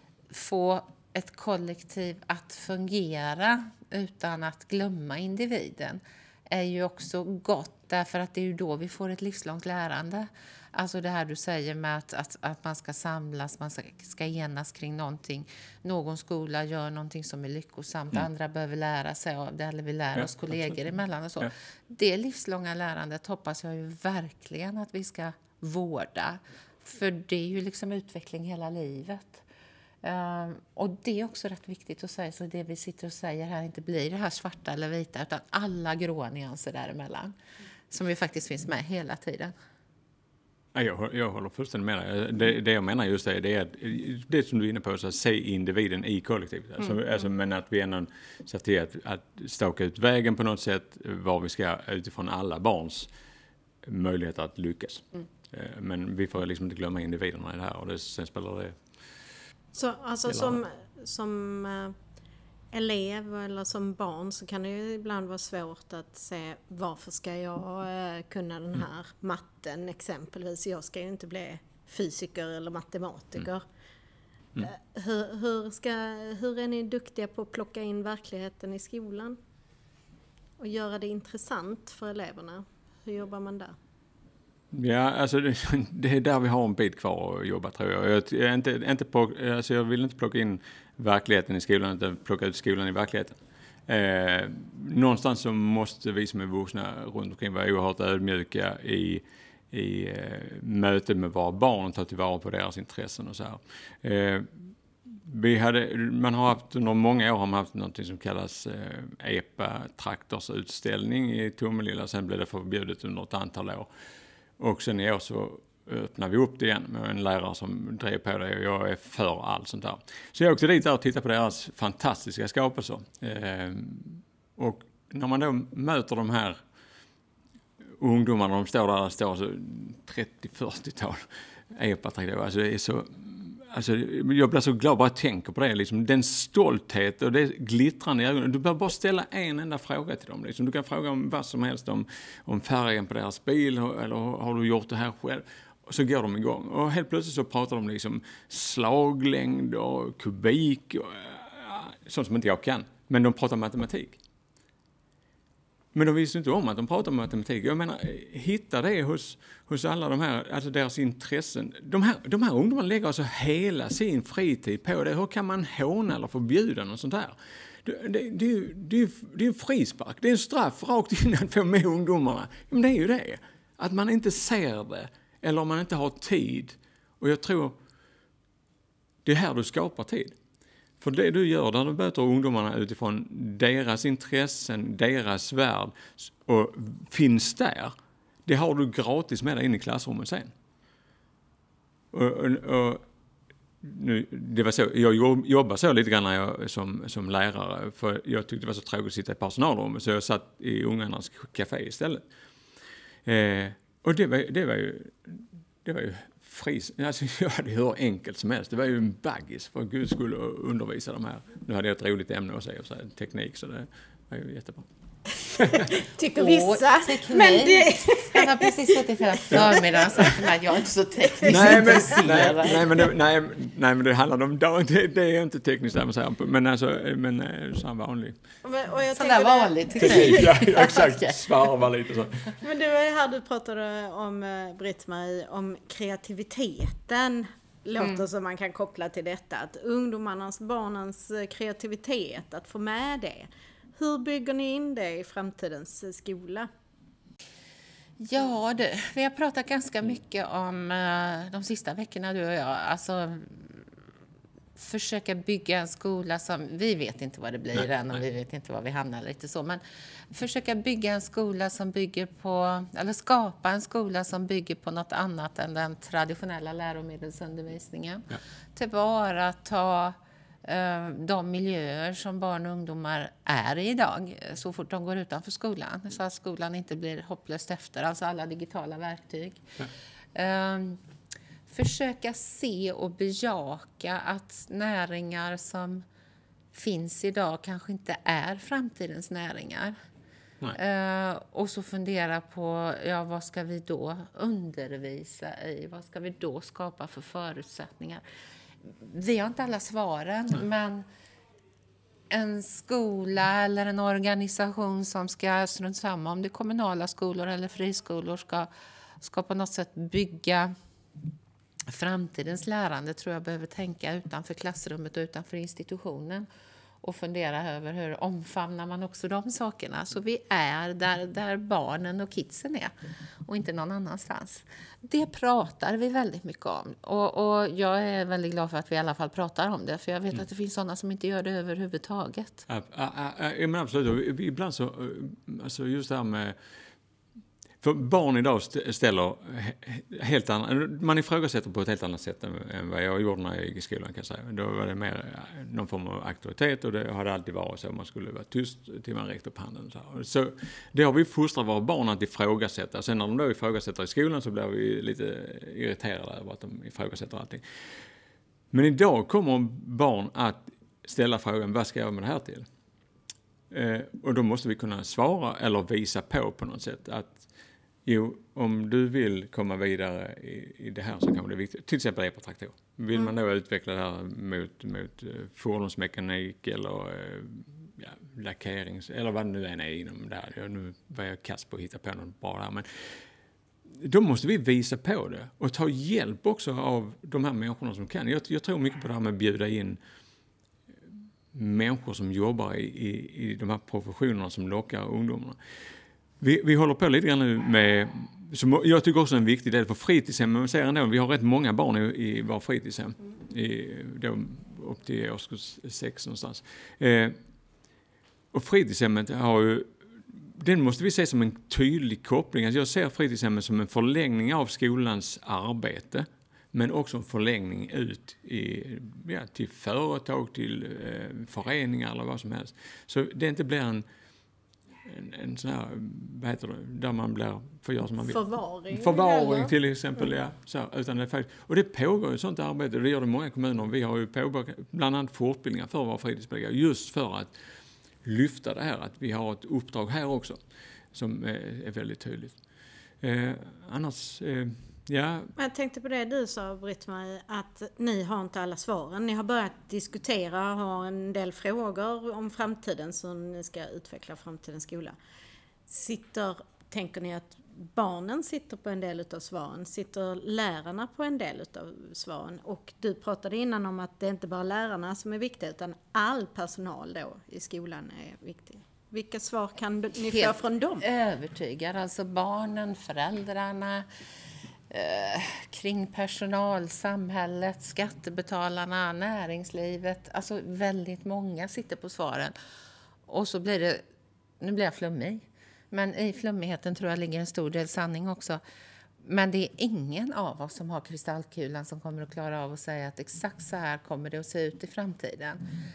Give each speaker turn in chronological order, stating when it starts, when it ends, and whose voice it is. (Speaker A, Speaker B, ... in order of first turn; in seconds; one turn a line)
Speaker A: 0.3-29.4
Speaker A: 30.0-37.4
Speaker A: 37.9-39.5
Speaker B: 40.7-53.1
Speaker B: 53.8-58.8
Speaker C: 59.7-62.0
Speaker B: 60.3-60.6
Speaker C: 62.7-73.6
Speaker C: 74.6-79.4
Speaker C: 80.6-83.7
Speaker B: 84.7-104.7
Speaker B: 105.2-113.9
Speaker B: 114.6-126.6
Speaker B: 128.0-154.2
Speaker B: 155.9-177.8
Speaker B: 179.2-180.3
Speaker B: 181.0-187.9
Speaker B: 188.4-190.5
Speaker B: 192.1-193.0
Speaker B: 193.8-202.2
Speaker B: 203.2-214.9
Speaker B: 215.6-215.8
Speaker C: 215.7-220.5
Speaker A: 216.3-222.8
Speaker C: 221.3-222.8
Speaker B: 221.5-228.3
Speaker C: 228.6-230.6
Speaker A: 229.1-231.3
Speaker B: 230.0-232.6
Speaker C: 232.6-246.7
Speaker A: 248.2-253.9
Speaker A: 254.8-281.0
Speaker A: 281.7-286.1
Speaker A: 286.7-289.9
Speaker A: 290.7-298.2
Speaker A: 298.8-301.1
Speaker A: 302.3-308.7
Speaker A: 309.2-310.7
Speaker A: 311.9-316.4
Speaker A: 317.0-322.9
Speaker A: 323.4-332.7
Speaker B: 332.7-336.6
Speaker B: 337.8-357.6
Speaker B: 358.7-362.6
Speaker B: 363.7-367.5
Speaker B: 368.1-383.2
Speaker B: 384.0-390.0
Speaker B: 391.5-395.6
Speaker B: 396.4-407.4
Speaker B: 408.5-424.0
Speaker B: 425.0-437.5
Speaker C: 428.2-430.2
Speaker B: 438.2-440.6
Speaker B: 441.1-442.6
Speaker B: 443.2-445.5
Speaker C: 445.6-455.1
Speaker C: 455.9-471.0
Speaker A: 470.3-474.1
Speaker A: 474.9-482.5
Speaker A: 483.3-484.0
Speaker A: 484.6-488.6
Speaker A: 489.2-495.6